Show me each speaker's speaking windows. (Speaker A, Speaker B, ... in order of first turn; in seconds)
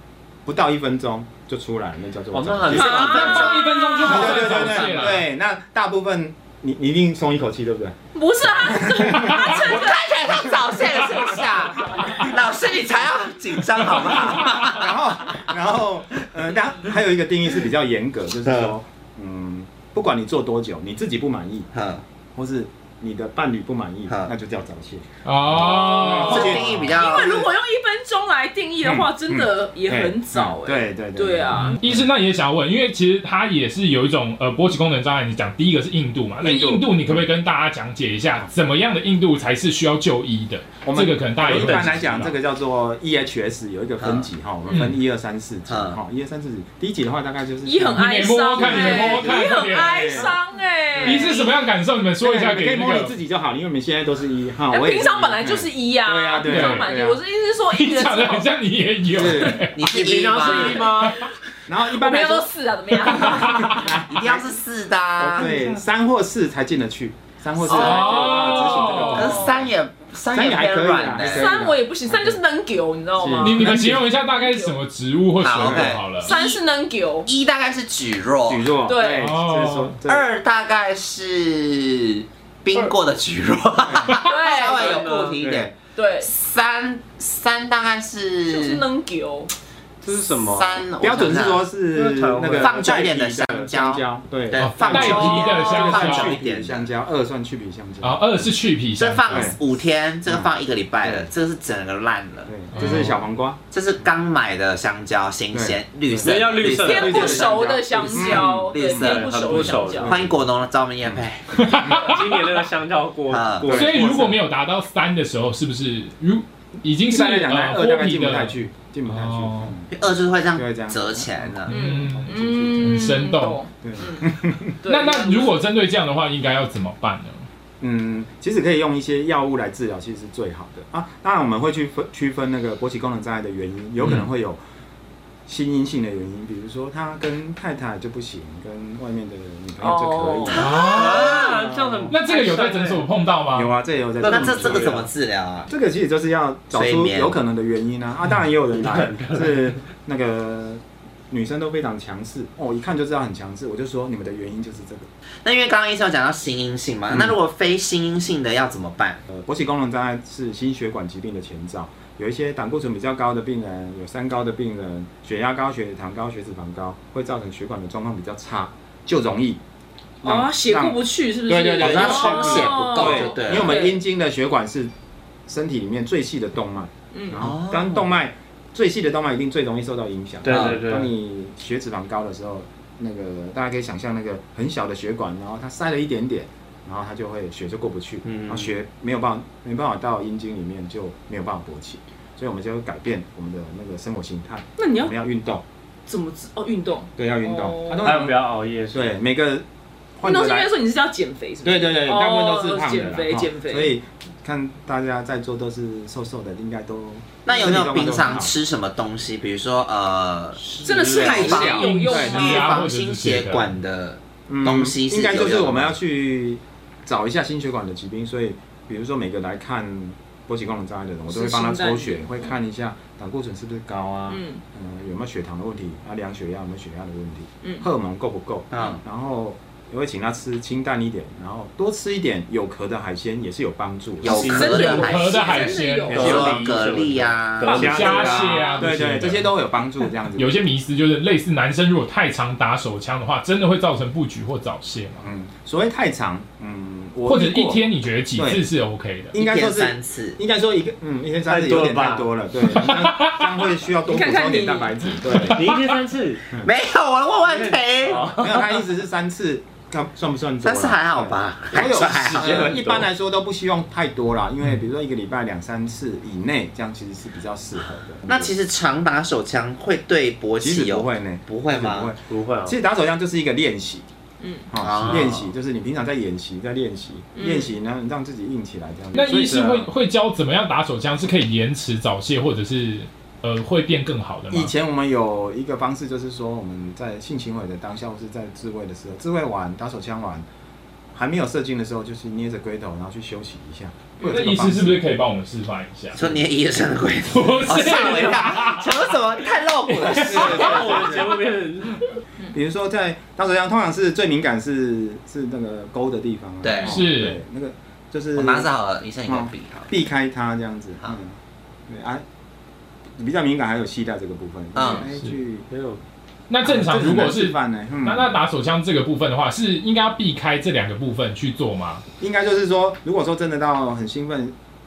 Speaker A: 0.5-3.0, 4.0-9.4, 14.6-21.7, 22.4-26.9, 28.8-32.1, 36.4-37.3, 40.8-50.3, 51.0-51.3, 52.2-57.2, 59.1-59.7, 61.7-62.5, 63.1-64.5, 65.2-69.7, 70.3-72.4, 73.2-74.0, 75.5-76.0, 78.5-80.3, 83.8-84.2, 85.4-85.7, 91.0-98.5, 99.3-99.6, 100.3-101.3, 102.5-103.6, 105.5-110.5, 113.6-114.4, 117.0-123.2, 123.8-124.8, 127.8-134.6, 135.5-142.1, 143.5-145.1, 145.7-155.1, 157.1-157.4, 159.3-169.6, 170.2-174.9, 175.5-195.6, 197.2-198.4, 198.9-199.7, 200.2-200.7, 201.6-208.6, 211.1-212.5, 214.5-234.4, 237.7-240.6, 245.2-248.6, 249.3-255.7, 258.1-268.5, 270.6-274.1, 274.7-279.9, 284.5-290.5, 291.1-295.0, 300.2-301.3, 302.5-308.7, 309.2-311.4, 311.9-312.2, 313.2-315.7, 316.6-318.4, 322.2-324.6
Speaker B: 2.3-3.3, 59.8-61.3, 84.8-85.5, 90.0-90.9, 91.8-92.9, 106.2-107.7, 109.1-110.1, 112.0-114.3, 140.9-143.1, 144.2-144.7, 148.8-149.8, 180.4-181.1, 188.2-188.7, 198.0-199.1, 210.6-211.3, 234.2-235.2, 236.1-238.7, 251.5-252.3, 255.5-256.5, 257.4-258.8, 262.2-263.1, 272.3-272.8, 300.4-302.1, 315.7-316.0
Speaker C: 2.7-4.3, 9.4-15.4, 18.4-18.8, 21.7-22.0, 26.1-27.5, 44.0-44.3, 45.7-46.0, 59.8-61.0, 64.1-65.5, 67.6-68.5, 69.1-71.5, 75.4-76.6, 77.3-78.8, 80.1-88.8, 90.3-91.7, 92.6-96.9, 99.0-102.5, 103.7-111.5, 113.3-113.7, 119.9-121.7, 140.5-141.5, 144.2-145.7, 146.7-147.4, 155.4-159.2, 171.8-173.9, 177.4-178.1, 180.5-180.8, 207.5-210.6, 211.2-216.0, 228.7-229.0, 234.2-238.3, 249.4-250.4, 256.5-258.3, 260.6-262.5, 268.3-272.1, 274.8-275.5, 296.1-301.2, 306.6-307.0, 308.4-309.9, 314.7-315.1
Speaker D: 2.7-4.8, 8.1-10.1, 25.6-31.7, 47.6-51.6, 54.7-58.5, 59.2-59.7, 60.5-60.9, 61.9-63.9, 71.2-74.8, 76.2-77.3, 78.8-79.3, 84.1-85.3, 86.0-86.3, 88.5-89.5, 95.3-96.0, 102.8-103.2, 106.8-110.2, 121.7-124.3, 124.8-125.7, 139.8-140.8, 170.2-174.0, 177.1-177.5, 194.8-195.1, 196.1-198.1, 200.2-203.9, 210.8-212.8, 221.3-222.4, 224.3-224.6, 234.4-236.6, 237.8-238.9, 254.1-255.5, 274.4-274.7, 277.4-277.7
Speaker E: 2.8-5.2, 25.2-26.9, 31.6-42.4, 44.7-45.0, 47.9-50.4, 51.0-53.1, 56.5-56.9, 57.7-59.8, 63.2-63.8, 65.5-65.7, 67.6-69.5, 73.4-76.3, 79.1-80.0, 94.5-96.3, 98.0-99.5, 102.8-103.1, 111.5-112.1, 113.7-118.6, 119.1-119.7, 121.7-123.6, 124.9-127.5, 134.0-134.3, 140.6-141.5, 142.1-143.7, 211.2-213.7, 234.5-236.3, 237.6-239.6, 240.4-245.2, 247.3-249.3, 252.7-253.4, 279.1-284.7, 294.2-296.4, 297.3-299.1, 299.9-300.7, 306.8-307.4, 314.8-315.3, 316.5-322.0